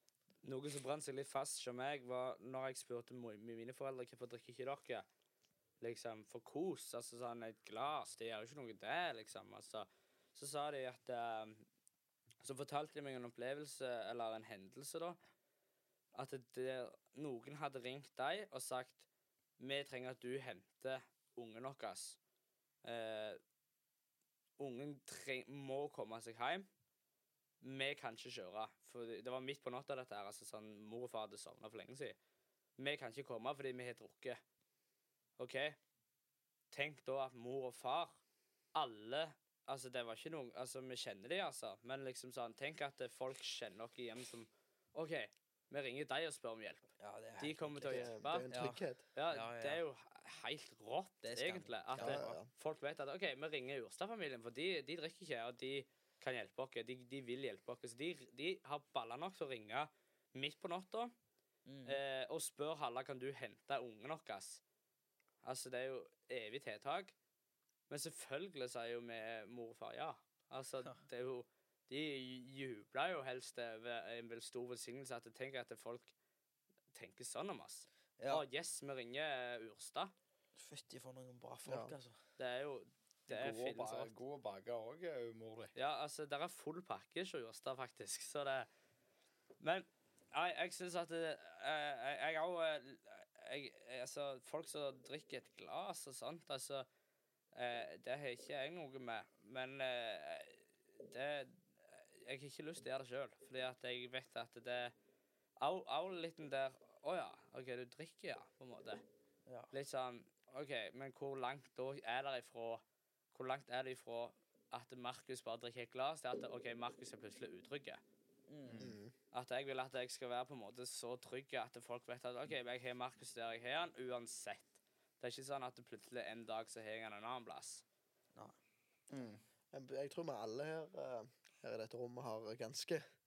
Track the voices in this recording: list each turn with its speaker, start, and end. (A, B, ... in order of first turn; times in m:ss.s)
0:00.4-0:05.0 A
0:05.8-0:11.6 A
0:12.4-0:15.2 A
0:16.1-0:19.0 A
0:19.6-0:22.2 A
0:22.8-0:23.4 A
0:24.6-0:26.6 A
0:27.6-0:32.2 A
0:32.8-0:34.4 A
0:35.4-0:35.8 A
0:36.7-0:38.2 A
0:38.7-0:48.6 A
0:47.0-0:49.8 B
0:47.9-0:49.0 C
0:49.1-1:01.1 A
0:51.2-0:52.4 B
0:52.0-0:52.5 C
1:01.6-1:02.0 B
1:01.9-1:04.6 A
1:05.4-1:07.1 A
1:07.9-1:16.1 A
1:16.9-1:20.1 A
1:18.2-1:18.4 B
1:20.6-1:22.2 B
1:21.6-1:21.9 C
1:22.4-1:24.1 A
1:23.3-1:25.7 D
1:25.7-1:28.7 A
1:29.6-1:36.9 A
1:37.5-1:44.9 A
1:45.6-1:49.0 A
1:49.5-1:49.7 B
1:49.7-1:58.0 A
1:58.5-1:58.8 B
1:58.7-1:59.0 D
1:58.8-1:59.1 C
1:59.3-2:07.8 A
2:09.1-2:09.4 D
2:09.7-2:13.0 C